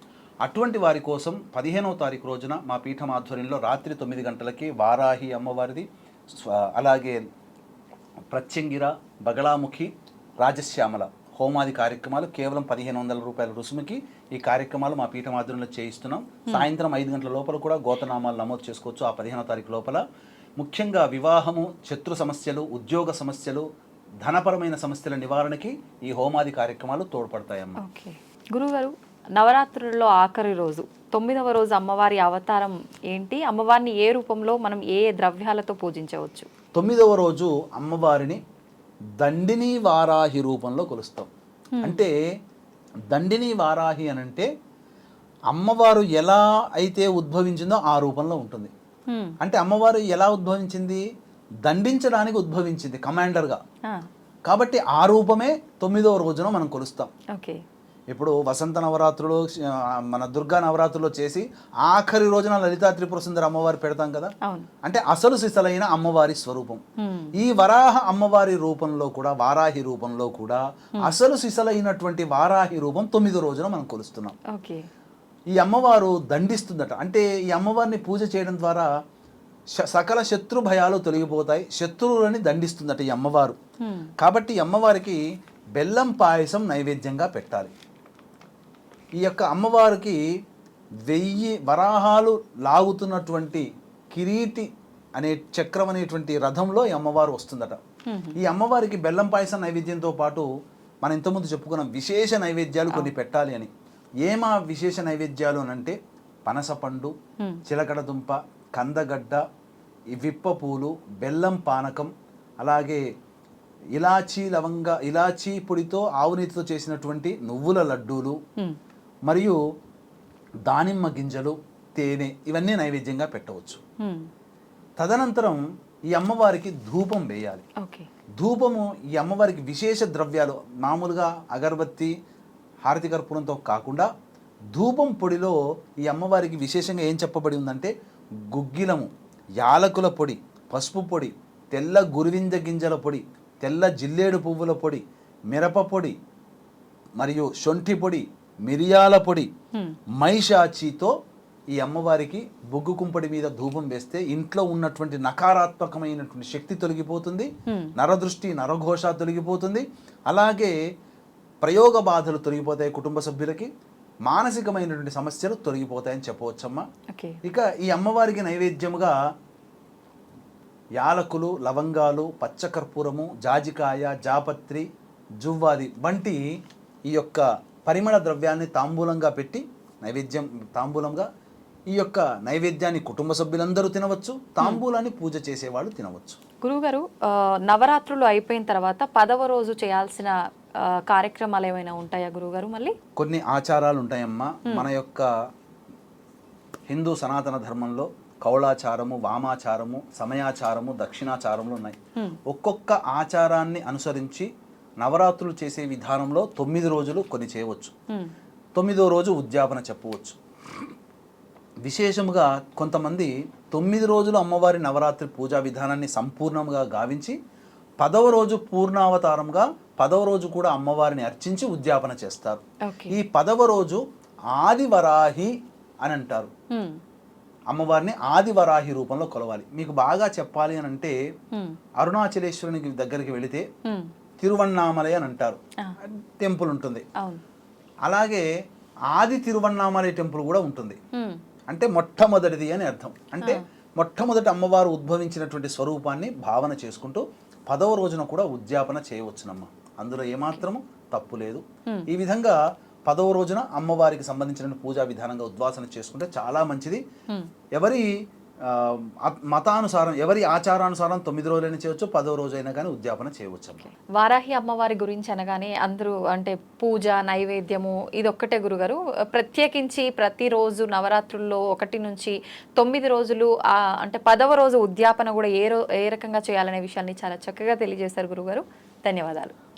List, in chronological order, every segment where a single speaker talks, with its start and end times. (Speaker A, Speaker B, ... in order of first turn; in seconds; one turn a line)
Speaker A: 0.4-7.2
Speaker A: 8.3-20.0
Speaker A: 20.6-23.6
Speaker A: 24.2-27.8
Speaker B: 27.8-36.5
Speaker A: 36.8-38.4
Speaker A: 39.2-41.3
Speaker B: 41.8-42.0
Speaker A: 41.8-42.1
Speaker A: 43.1-44.5
Speaker A: 45.5-48.7
Speaker B: 49.1-49.4
Speaker A: 49.4-51.0
Speaker A: 51.7-53.6
Speaker A: 54.5-57.1
Speaker B: 57.3-57.6
Speaker A: 58.1-64.3
Speaker A: 64.8-66.8
Speaker B: 67.0-67.3
Speaker A: 67.4-74.4
Speaker B: 74.5-74.9
Speaker A: 75.6-78.9
Speaker A: 79.8-83.6
Speaker B: 83.8-84.1
Speaker A: 84.2-85.2
Speaker A: 85.8-87.7
Speaker A: 89.2-90.2
Speaker A: 91.1-94.7
Speaker A: 95.2-97.8
Speaker B: 98.1-98.4
Speaker A: 98.4-100.5
Speaker A: 101.0-103.7
Speaker A: 104.2-106.0
Speaker A: 106.5-107.1
Speaker A: 107.7-109.4
Speaker A: 110.2-113.0
Speaker A: 114.0-118.4
Speaker A: 119.3-119.6
Speaker A: 120.7-123.8
Speaker B: 124.0-124.3
Speaker A: 125.0-125.6
Speaker A: 126.1-127.7
Speaker B: 127.8-128.1
Speaker A: 128.4-132.1
Speaker A: 132.9-134.1
Speaker A: 134.7-137.9
Speaker A: 138.5-139.1
Speaker A: 139.6-146.2
Speaker A: 147.2-149.5
Speaker A: 150.2-151.1
Speaker A: 151.8-160.8
Speaker B: 157.7-157.9
Speaker A: 161.6-163.7
Speaker A: 164.3-166.8
Speaker B: 167.1-167.4
Speaker A: 167.4-169.2
Speaker A: 171.0-174.9
Speaker A: 175.4-176.4
Speaker A: 177.1-181.3
Speaker A: 181.9-186.4
Speaker B: 186.6-190.3
Speaker B: 190.9-192.9
Speaker A: 193.2-195.3
Speaker A: 196.9-204.5
Speaker A: 205.0-207.9
Speaker A: 208.8-210.8
Speaker A: 211.8-217.4
Speaker A: 218.0-224.0
Speaker B: 222.9-223.2
Speaker A: 224.6-225.5
Speaker A: 226.1-226.5
Speaker B: 226.7-227.0
Speaker A: 227.7-231.2
Speaker A: 232.0-233.7
Speaker B: 233.8-234.1
Speaker A: 234.4-237.1
Speaker A: 238.1-238.4
Speaker A: 239.1-241.0
Speaker B: 241.2-241.4
Speaker A: 241.7-257.0
Speaker A: 257.8-258.1
Speaker A: 258.7-263.9
Speaker B: 264.0-279.5